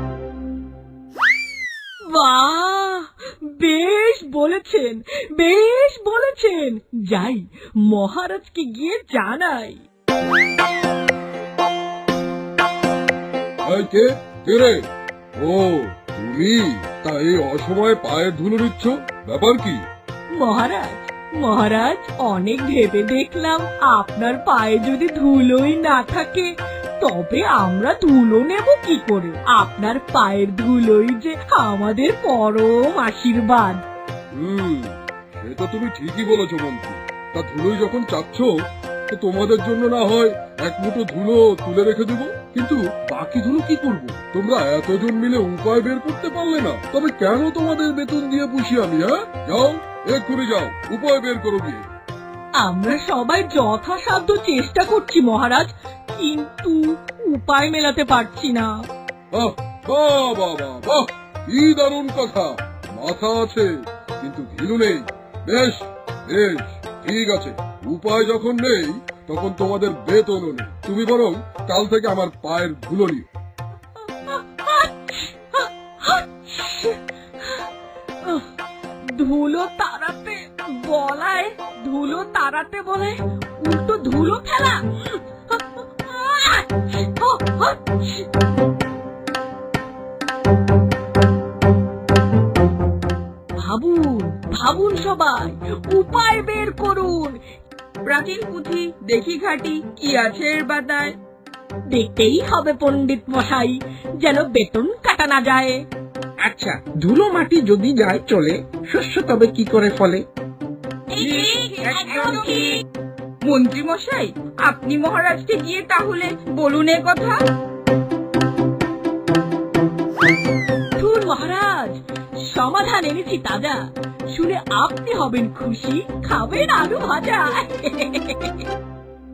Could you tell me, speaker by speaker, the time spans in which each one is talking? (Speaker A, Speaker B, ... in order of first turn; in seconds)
Speaker A: 2.1-9.8, 20.4-33.8, 52.6-58.7, 74.2-77.6, 78.2-78.5, 79.0-88.2, 93.6-97.4, 101.9-105.8, 121.0-122.0, 122.5-123.8, 124.3-128.6
Speaker B: 13.7-14.8, 15.4-19.8, 34.4-38.5, 39.1-51.8, 59.3-63.7, 64.2-73.2
Speaker C: 98.0-101.2, 111.1-112.8, 113.4-117.3
Speaker D: 106.4-110.2, 111.2-112.4